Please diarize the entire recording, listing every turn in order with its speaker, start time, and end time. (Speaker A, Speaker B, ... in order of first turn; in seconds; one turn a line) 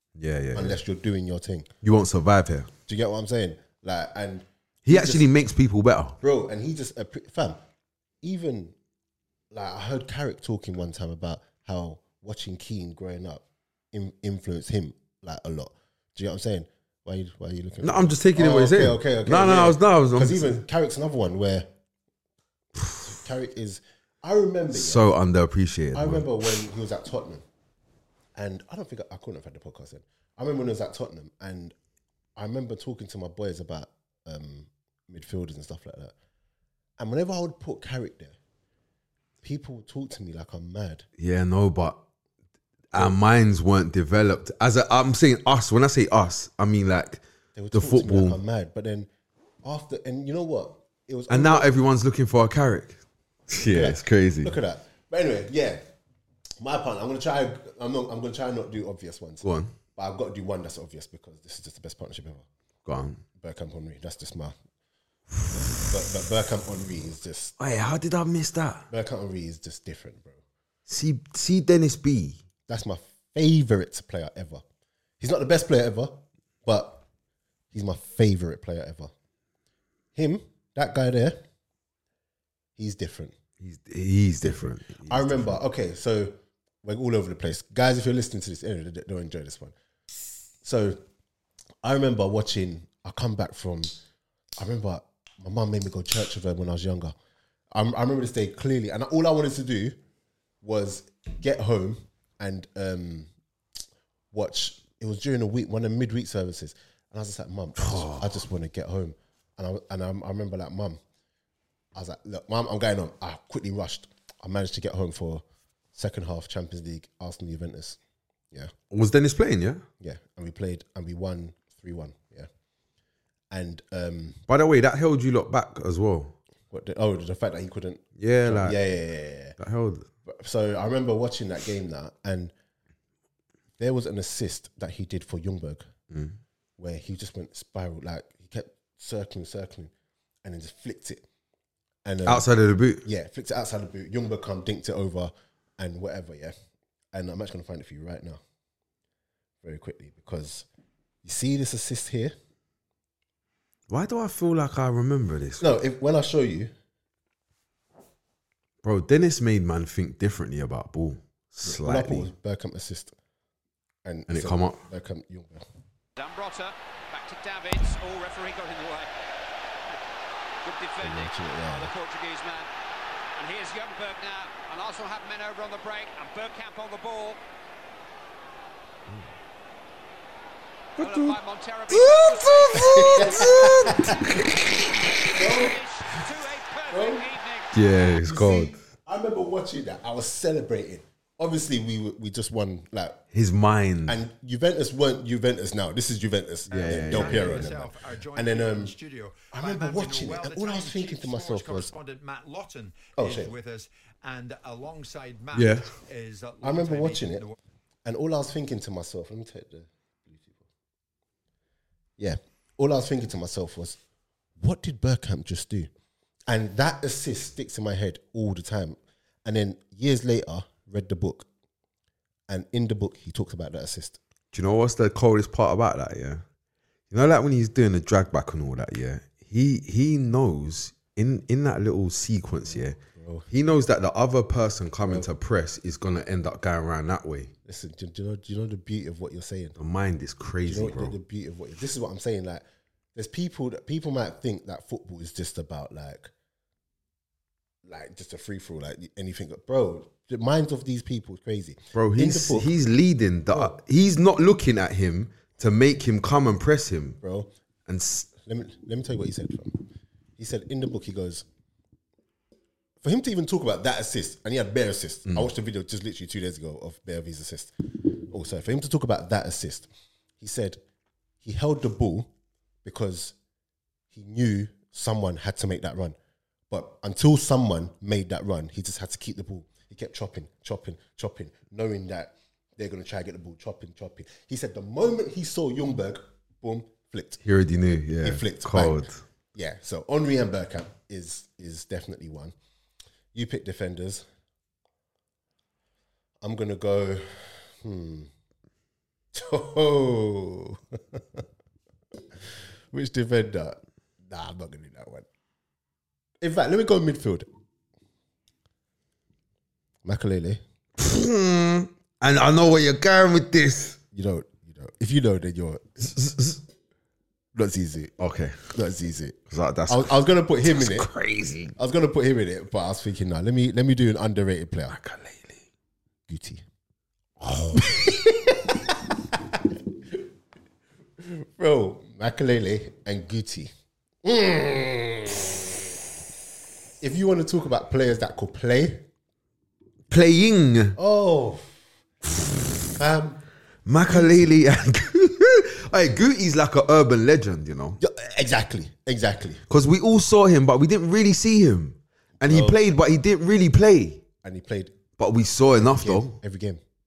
Speaker A: 0.2-0.8
Speaker B: 0.5-1.7
Speaker A: 1.8-2.7
Speaker B: 2.9-5.3
Speaker A: 4.8-6.2
Speaker B: 6.2-7.6
Speaker B: 8.2-8.7
Speaker B: 9.5-21.7
Speaker A: 17.8-20.6
Speaker B: 22.9-25.1
Speaker A: 24.7-26.3
Speaker B: 25.9-27.4
Speaker B: 28.4-31.8
Speaker B: 32.4-36.1
Speaker B: 37.0-38.4
Speaker B: 39.4-41.1
Speaker A: 41.2-42.0
Speaker A: 42.9-47.2
Speaker B: 47.6-49.1
Speaker A: 47.7-48.4
Speaker B: 49.6-51.7
Speaker A: 51.3-54.5
Speaker B: 53.7-55.8
Speaker B: 56.6-59.4
Speaker A: 59.4-59.7
Speaker B: 60.0-62.5
Speaker A: 62.9-63.2
Speaker B: 63.4-64.5
Speaker B: 65.5-67.5
Speaker A: 67.6-68.9
Speaker B: 68.9-70.4
Speaker A: 70.9-72.4
Speaker B: 72.7-74.6
Speaker B: 75.2-77.0
Speaker B: 77.7-79.1
Speaker B: 80.2-81.4
Speaker B: 82.8-83.3
Speaker A: 83.6-85.6
Speaker B: 84.4-89.7
Speaker B: 90.6-91.0
Speaker B: 91.8-93.9
Speaker B: 94.6-97.1
Speaker B: 97.7-100.0
Speaker B: 100.6-103.3
Speaker B: 104.3-111.0
Speaker A: 107.8-108.3
Speaker B: 112.0-115.4
Speaker B: 115.9-118.0
Speaker A: 118.9-119.8
Speaker B: 120.0-122.5
Speaker B: 123.5-124.4
Speaker A: 124.5-126.3
Speaker B: 126.7-129.6
Speaker A: 128.2-128.8
Speaker A: 129.6-130.1
Speaker B: 130.2-132.5
Speaker B: 133.8-135.9
Speaker A: 136.1-136.4
Speaker B: 136.8-139.9
Speaker B: 140.4-141.2
Speaker B: 142.1-142.5
Speaker A: 142.3-143.0
Speaker B: 143.0-146.5
Speaker B: 147.1-148.4
Speaker B: 149.6-150.7
Speaker B: 151.2-152.3
Speaker A: 153.9-155.6
Speaker B: 155.6-156.7
Speaker A: 158.8-162.3
Speaker B: 161.6-163.2
Speaker B: 164.1-165.7
Speaker A: 164.3-164.8
Speaker C: 166.2-169.1
Speaker C: 170.6-172.7
Speaker B: 171.0-171.9
Speaker C: 173.4-177.4
Speaker C: 181.0-184.0
Speaker A: 181.0-181.4
Speaker A: 181.9-184.7
Speaker B: 182.8-184.3
Speaker C: 185.3-187.7
Speaker B: 185.3-185.8
Speaker B: 186.9-187.3
Speaker A: 187.7-188.7
Speaker B: 188.2-193.2
Speaker A: 193.3-194.2
Speaker B: 194.1-198.9
Speaker D: 196.7-207.6
Speaker A: 196.7-197.7
Speaker B: 199.5-201.9
Speaker B: 203.2-203.5
Speaker A: 205.5-205.9
Speaker B: 206.6-207.4
Speaker B: 208.1-210.7
Speaker B: 212.2-214.0
Speaker B: 214.6-215.9
Speaker B: 216.5-221.5
Speaker B: 222.5-224.2
Speaker A: 224.5-226.4
Speaker A: 227.1-233.0
Speaker B: 233.1-233.5
Speaker A: 233.5-237.5
Speaker B: 237.7-239.8
Speaker A: 239.8-241.1
Speaker B: 240.7-242.6
Speaker B: 243.2-246.3
Speaker B: 247.8-252.7
Speaker A: 251.9-257.2
Speaker B: 257.2-257.5
Speaker A: 257.9-258.3
Speaker B: 258.4-259.8
Speaker B: 260.4-261.4
Speaker B: 263.0-269.9
Speaker B: 270.4-270.8
Speaker B: 271.4-272.3
Speaker B: 272.8-273.4
Speaker B: 274.1-276.2
Speaker B: 276.7-287.4
Speaker A: 287.4-289.2
Speaker B: 288.2-289.0
Speaker B: 289.5-292.5
Speaker B: 293.3-294.2
Speaker B: 296.4-298.3
Speaker B: 299.3-301.4
Speaker B: 302.9-305.3
Speaker B: 306.4-307.5
Speaker B: 310.0-310.6
Speaker A: 311.0-314.0
Speaker B: 314.1-316.1
Speaker A: 316.0-316.6
Speaker B: 317.6-318.1
Speaker A: 318.2-318.6
Speaker B: 318.7-321.1
Speaker A: 319.5-321.7
Speaker B: 321.8-325.0
Speaker A: 324.9-325.6
Speaker B: 326.3-326.6
Speaker B: 327.4-330.2
Speaker B: 331.2-333.7
Speaker B: 334.2-335.6
Speaker B: 337.0-339.1
Speaker A: 340.1-341.0
Speaker B: 341.0-341.7
Speaker B: 342.9-343.4
Speaker A: 343.9-348.0
Speaker B: 344.1-344.5
Speaker B: 348.0-349.6
Speaker A: 349.7-354.2
Speaker B: 352.4-352.8
Speaker B: 354.4-355.0
Speaker A: 355.2-356.4
Speaker B: 355.8-356.8